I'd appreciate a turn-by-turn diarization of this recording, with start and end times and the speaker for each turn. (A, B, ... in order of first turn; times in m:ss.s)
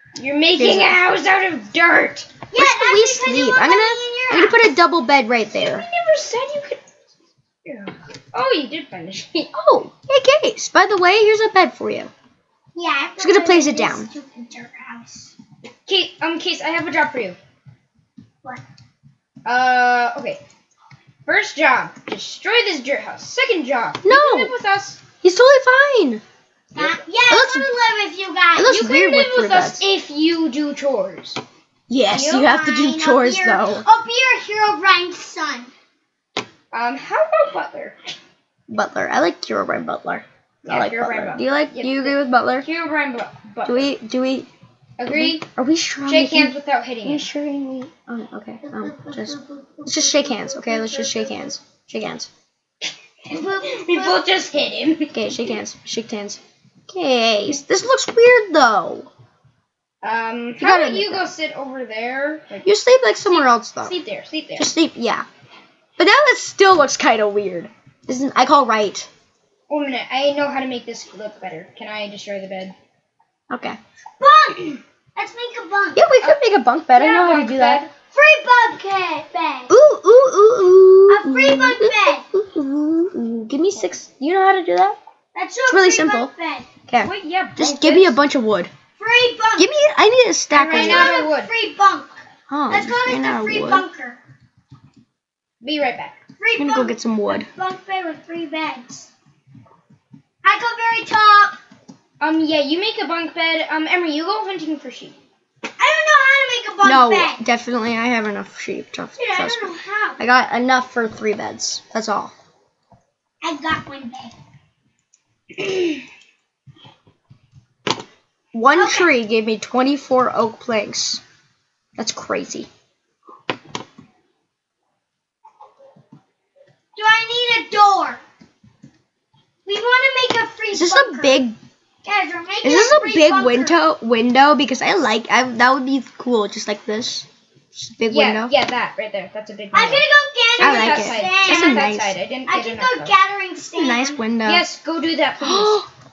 0:00.2-0:02.3 A
0:00.6-0:01.0 B
0:02.5-0:04.6 C
0:02.6-0:05.9 B
0:05.6-0:06.8 A
0:07.6-0:09.5 A
0:09.5-0:12.1 B
0:12.8-0:15.3 C
0:13.2-0:14.1 B
0:15.9-0:17.4 A
0:19.4-0:20.4 A
0:21.2-0:25.0 A
0:24.0-0:24.5 B
0:25.2-0:26.2 B
0:26.8-0:28.8 C
0:27.3-0:27.7 B
0:28.6-0:29.8 B
0:28.7-0:31.4 A
0:31.9-0:33.8 B
0:32.1-0:35.7 C
0:36.7-0:38.0 A
0:38.7-0:42.7 B
0:40.6-0:43.9 A
0:43.7-0:44.5 B
0:45.0-0:45.4 A
0:45.1-0:52.3 B
0:46.1-0:47.3 A
0:48.6-0:51.0 C
0:50.8-0:51.5 A
0:53.3-0:55.6 A
0:53.3-0:54.2 C
0:55.1-0:59.1 B
1:00.0-1:02.7 A
1:00.6-1:01.3 B
1:02.6-1:04.0 B
1:03.3-1:04.7 A
1:04.6-1:05.3 B
1:06.0-1:09.1 B
1:09.7-1:12.8 A
1:13.5-1:13.8 B
1:14.2-1:16.0 C
1:16.0-1:17.9 B
1:16.2-1:17.9 A
1:18.1-1:19.7 C
1:19.7-1:25.0 B
1:21.1-1:22.2 C
1:25.3-1:26.7 C
1:25.7-1:26.3 B
1:26.9-1:28.7 B
1:27.0-1:28.2 A
1:29.0-1:29.7 C
1:29.6-1:31.1 B
1:30.5-1:31.5 A
1:30.7-1:32.2 C
1:32.5-1:33.9 B
1:32.7-1:34.2 C
1:35.6-1:36.2 A
1:36.4-1:39.1 C
1:36.6-1:37.5 B
1:40.4-1:41.6 C
1:42.2-1:45.2 A
1:45.8-1:47.4 C
1:46.8-1:52.3 B
1:49.2-1:50.2 C
1:53.4-1:54.3 C
1:58.5-2:01.2 B
1:58.8-1:59.1 C
2:02.0-2:02.7 B
2:07.0-2:08.2 C
2:09.7-2:11.4 C
2:10.7-2:11.6 B
2:12.0-2:13.8 C
2:12.6-2:18.5 B
2:18.1-2:20.0 A
2:19.7-2:21.9 C
2:20.6-2:23.1 A
2:20.6-2:22.2 B
2:22.5-2:24.2 C
2:23.8-2:24.6 B
2:24.4-2:25.8 A
2:25.4-2:25.9 B